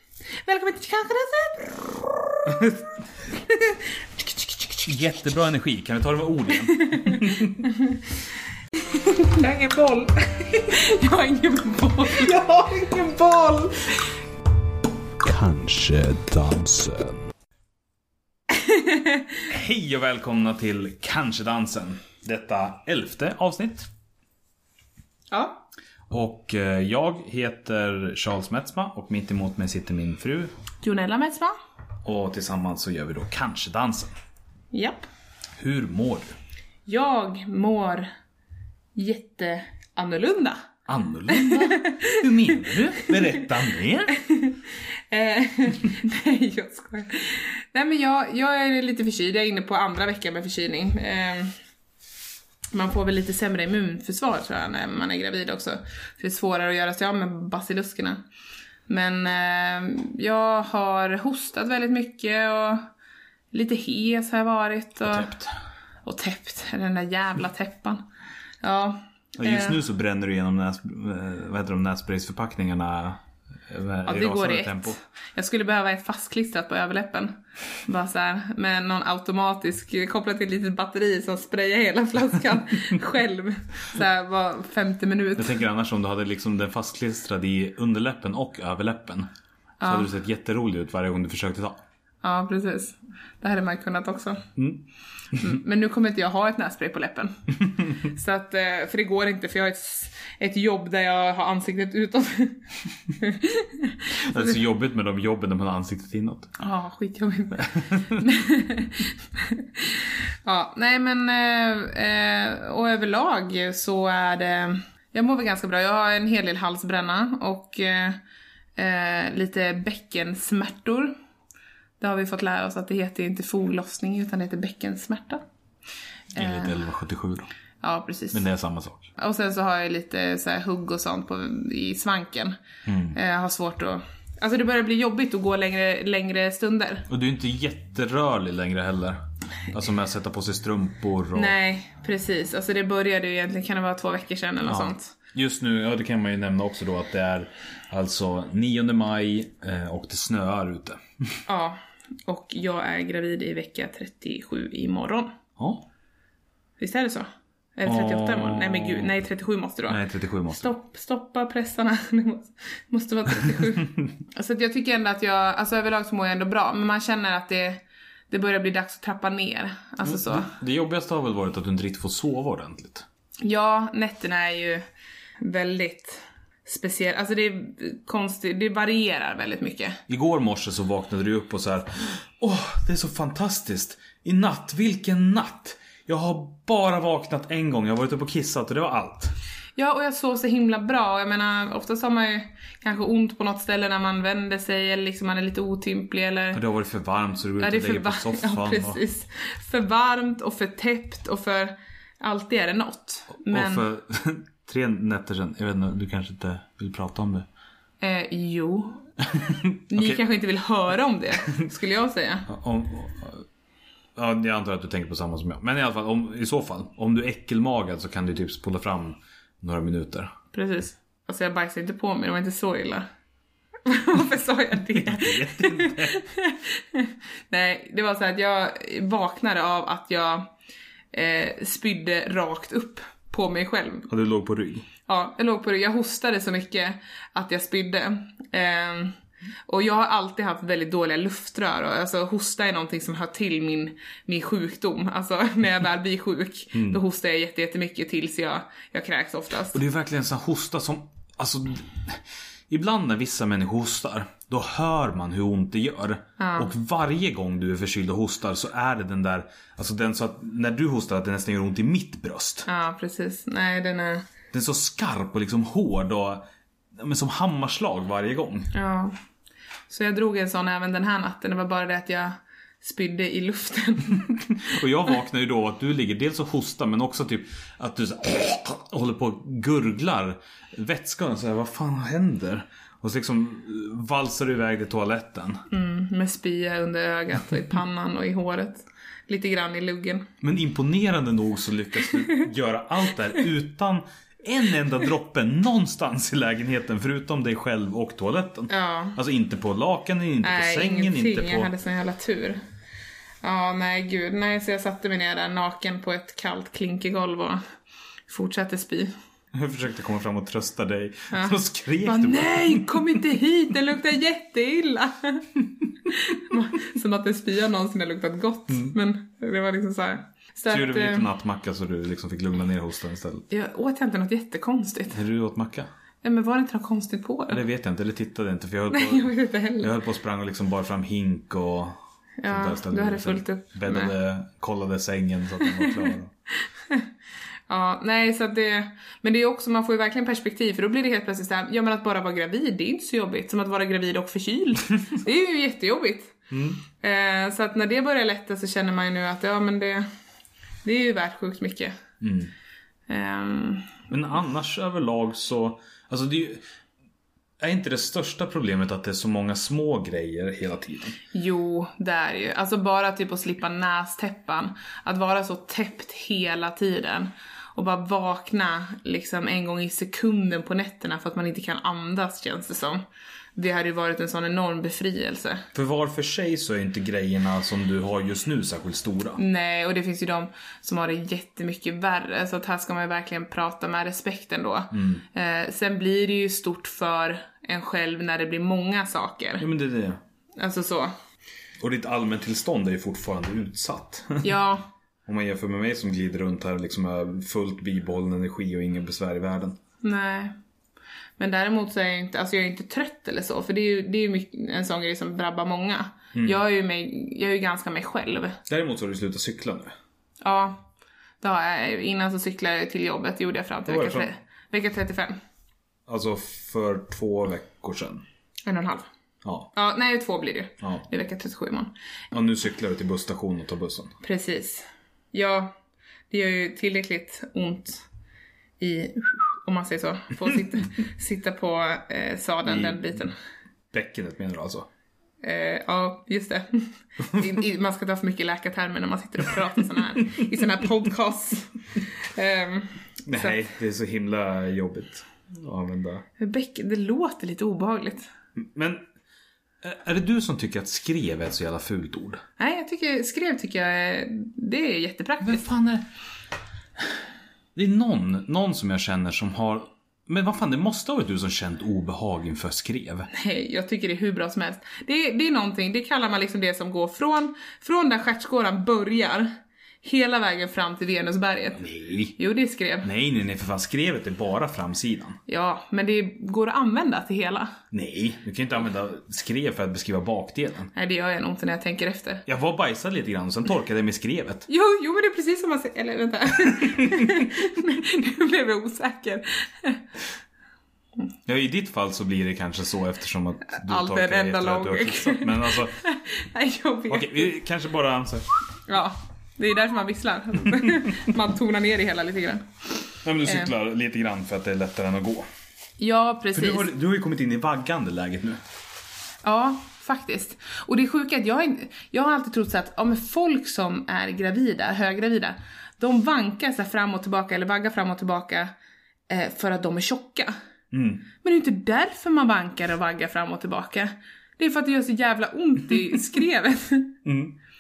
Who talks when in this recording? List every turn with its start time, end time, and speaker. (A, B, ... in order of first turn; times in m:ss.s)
0:00.4-0:02.6 A
0:02.5-0:02.8 B
0:03.3-0:04.9 A
0:04.8-0:07.7 B
0:06.8-0:08.0 A
0:08.7-0:14.1 A
0:15.2-0:17.2 B
0:18.5-0:19.4 A
0:19.5-0:23.9 B
0:25.3-0:25.6 A
0:26.1-0:30.5 B
0:30.8-0:31.5 A
0:32.0-0:34.1 B
0:34.7-0:35.1 A
0:35.6-0:36.3 B
0:36.9-0:38.1 A
0:39.0-0:40.6 A
0:40.9-0:44.2 B
0:41.3-0:43.5 A
0:44.1-0:51.5 A
0:52.7-0:58.2 A
0:58.9-1:02.9 A
1:03.5-1:05.4 A
1:05.0-1:05.5 B
1:06.0-1:08.0 A
1:08.6-1:09.8 A
1:09.4-1:15.0 B
1:14.1-1:25.6 A
1:25.4-1:29.3 B
1:29.8-1:30.1 A
1:29.8-1:31.8 B
1:32.2-1:34.4 A
1:34.6-1:34.8 B
1:35.4-1:37.4 A
1:38.0-1:44.6 A
1:44.2-1:46.5 B
1:46.6-1:58.2 A
1:47.6-1:48.2 B
1:58.8-2:01.2 A
2:02.0-2:05.4 A
2:06.4-2:07.5 B
2:06.4-2:06.8 A
2:07.8-2:08.4 A
2:08.3-2:09.1 B
2:09.2-2:12.6 A
2:12.9-2:13.2 B
2:13.1-2:17.1 A
2:17.1-2:21.5 B
2:21.3-2:25.1 A
2:24.6-2:31.4 B
2:31.5-2:35.3 A
2:35.6-2:35.8 B
2:36.8-2:40.0 A
2:37.8-2:39.1 B
2:39.9-2:40.7 B
2:40.5-2:50.5 A
2:50.0-2:53.1 B
2:53.4-2:54.8 A
2:55.4-3:00.0 A
3:00.1-3:09.4 B
3:09.8-3:16.6 A
3:16.5-3:19.0 B
3:17.6-3:23.8 A
3:23.4-3:27.5 B
3:28.0-3:29.1 A
3:29.3-3:30.2 B
3:29.9-3:32.5 A
3:32.5-3:33.5 B
3:34.2-3:40.3 B
3:40.5-3:43.1 A
3:43.8-3:50.5 A
3:44.9-3:46.2 B
3:51.1-3:54.1 A
3:54.1-3:54.9 B
3:55.1-3:59.2 A
3:59.7-4:09.8 A
4:06.7-4:07.0 B
4:09.7-4:22.7 B
4:16.4-4:16.7 A
4:22.7-4:24.3 A
4:24.5-4:26.4 B
4:27.0-4:28.7 B
4:28.7-4:29.2 A
4:29.9-4:34.4 A
4:34.4-4:45.6 B
4:45.7-4:50.3 A
4:50.4-5:01.7 B
4:58.7-4:59.2 A
5:00.4-5:02.6 A
5:03.4-5:07.6 A
5:08.3-5:09.1 A
5:09.5-5:13.2 B
5:11.3-5:15.5 A
5:16.0-5:21.3 A
5:18.7-5:19.0 B
5:20.7-5:23.5 B
5:23.5-5:25.2 A
5:25.1-5:25.9 B
5:26.2-5:27.6 A
5:27.5-5:36.3 B
5:28.9-5:29.9 A
5:32.4-5:34.1 A
5:35.6-5:36.1 A
5:36.6-5:37.1 A
5:37.7-5:46.4 A
5:46.5-5:46.8 B
5:46.9-5:50.1 A
5:50.8-5:52.0 A
5:52.2-5:52.5 B
5:53.1-5:54.1 A
5:54.1-5:56.6 B
5:57.6-6:01.2 B
6:01.3-6:13.0 A
6:13.6-6:15.7 A
6:15.7-6:19.4 B
6:19.4-6:29.6 A
6:24.9-6:25.2 B
6:29.6-6:30.2 B
6:30.6-6:31.1 A
6:31.8-6:34.5 B
6:34.4-6:34.9 A
6:35.3-6:39.8 B
6:40.0-6:40.6 A
6:41.4-6:48.6 A
6:46.3-6:46.6 B
6:48.7-6:49.9 B
6:50.4-6:50.9 A
6:51.4-6:55.4 A
6:53.9-6:54.3 B
6:56.1-6:58.2 B
6:58.6-6:59.1 A
6:59.4-6:59.7 B
6:59.7-7:01.9 A
7:02.3-7:04.2 B
7:04.2-7:05.7 A
7:06.3-7:08.0 A
7:08.8-7:13.4 A
7:12.6-7:13.2 B
7:13.9-7:14.9 B
7:15.4-7:23.6 A
7:23.2-7:26.2 B
7:26.4-7:28.3 A
7:28.6-7:29.0 B
7:29.8-7:32.4 B
7:32.6-7:35.7 A
7:35.4-7:36.0 B
7:37.8-7:43.3 B
7:43.3-7:49.5 A
7:50.0-7:51.8 A
7:51.8-7:52.4 B
7:52.4-7:53.1 A
7:53.0-7:55.4 B
7:55.5-7:57.7 A
7:57.9-8:00.9 B
8:01.0-8:02.4 A
8:02.5-8:04.7 B
8:04.7-8:10.0 A
8:06.6-8:07.4 B
8:11.5-8:16.0 B
8:13.7-8:17.6 A
8:17.1-8:18.6 B
8:18.9-8:23.7 A
8:20.8-8:21.1 B
8:23.2-8:25.5 B
8:26.0-8:26.9 A
8:26.5-8:28.6 B
8:29.4-8:38.7 A
8:39.3-8:40.5 A
8:40.9-8:41.3 B
8:41.4-8:47.2 A
8:47.2-8:47.6 B